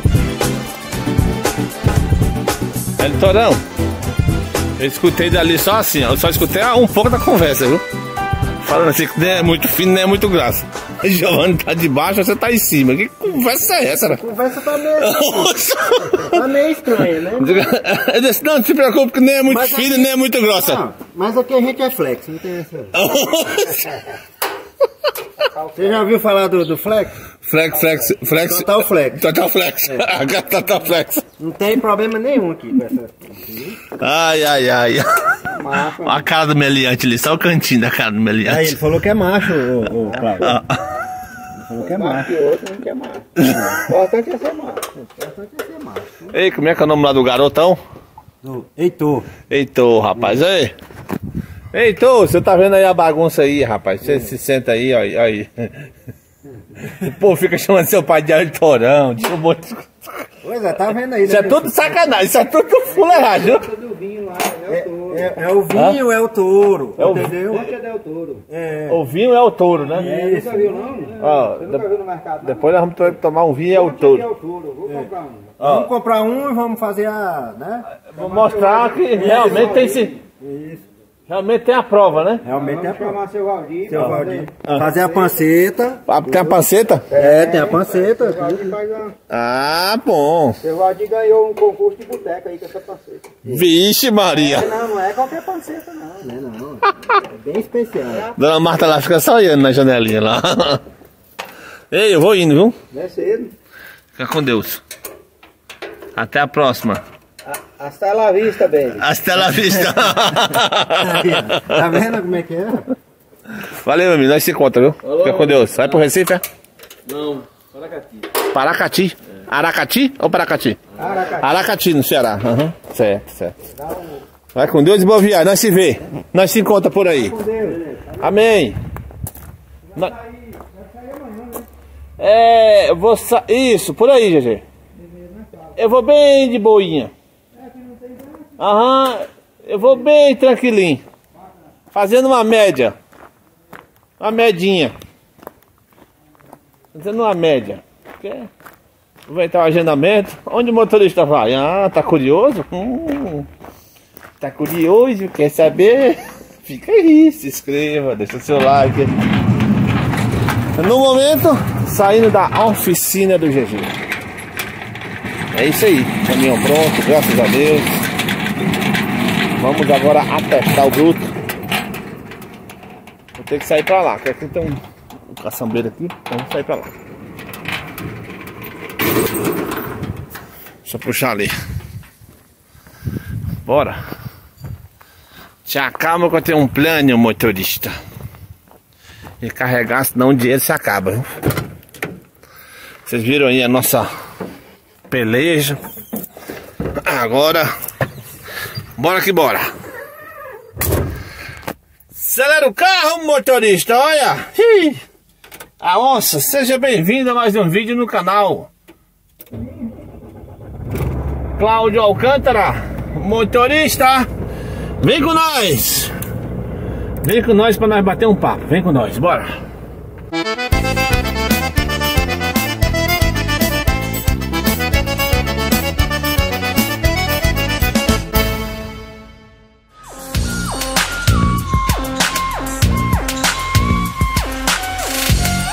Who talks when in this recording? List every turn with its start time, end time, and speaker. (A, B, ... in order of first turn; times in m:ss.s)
0:03.0-0:03.6 A
0:04.8-0:07.8 A
0:08.6-0:14.3 A
0:14.1-0:17.7 B
0:14.8-0:16.4 A
0:17.2-0:20.9 A
0:19.4-0:23.0 B
0:22.9-0:24.0 A
0:25.4-0:26.0 C
0:25.7-0:27.2 B
0:27.4-0:31.3 A
0:28.4-0:29.2 B
0:31.4-0:33.8 B
0:33.9-0:38.8 A
0:35.5-0:36.2 C
0:38.4-0:40.6 B
0:39.6-0:40.9 A
0:40.2-0:40.5 C
0:41.5-0:42.4 B
0:41.7-0:44.8 C
0:43.4-0:43.8 A
0:45.1-0:46.3 B
0:46.3-0:47.8 A
0:48.4-0:49.3 B
0:49.5-0:50.7 A
0:51.7-0:55.9 A
0:56.7-1:00.3 A
1:00.4-1:02.1 B
1:01.2-1:03.7 A
1:03.0-1:05.4 C
1:04.7-1:07.7 B
1:05.7-1:06.0 A
1:07.0-1:07.5 A
1:07.3-1:08.4 C
1:08.5-1:09.0 B
1:08.9-1:10.1 A
1:09.9-1:12.6 C
1:09.9-1:10.9 B
1:11.2-1:11.9 A
1:12.4-1:14.3 A
1:13.7-1:15.6 C
1:14.9-1:17.9 B
1:15.6-1:15.9 A
1:18.0-1:20.1 A
1:18.1-1:20.2 C
1:20.4-1:20.8 B
1:21.3-1:22.4 A
1:22.4-1:23.2 B
1:22.4-1:25.3 C
1:23.9-1:26.0 B
1:24.6-1:24.9 A
1:26.0-1:27.1 A
1:27.1-1:29.2 C
1:27.1-1:28.7 B
1:29.3-1:30.6 A
1:30.6-1:33.6 C
1:33.4-1:34.7 A
1:34.3-1:36.3 C
1:36.2-1:38.3 B
1:38.3-1:40.8 A
1:41.9-1:42.8 A
1:42.9-1:43.5 C
1:44.1-1:44.8 A
1:46.1-1:47.0 A
1:47.4-1:49.0 C
1:48.9-1:51.8 A
1:50.9-1:52.9 B
1:53.5-1:56.4 A
1:57.3-1:58.1 C
1:58.4-2:03.7 A
2:01.0-2:01.4 C
2:04.5-2:07.4 A
2:07.2-2:08.0 C
2:08.2-2:08.8 A
2:09.9-2:10.2 A
2:10.6-2:11.6 C
2:12.2-2:14.6 A
2:15.6-2:17.1 A
2:17.8-2:18.3 C
2:18.6-2:21.0 A
2:21.9-2:23.0 A
2:24.2-2:24.9 A
2:26.9-2:28.5 A
2:29.3-2:33.5 A
2:34.4-2:39.1 A
2:40.7-2:44.0 A
2:45.5-2:48.1 A
2:49.5-2:51.3 A
2:53.3-2:56.9 A
3:00.8-3:01.5 A
3:03.6-3:04.0 A
3:05.6-3:07.9 A
3:09.4-3:11.3 A
3:13.0-3:14.1 A
3:15.1-3:15.8 A
3:17.0-3:17.7 A
3:19.0-3:19.7 A
3:22.1-3:25.0 A
3:25.8-3:28.7 A
3:31.6-3:34.3 A
3:35.0-3:36.1 A
3:37.2-3:39.6 A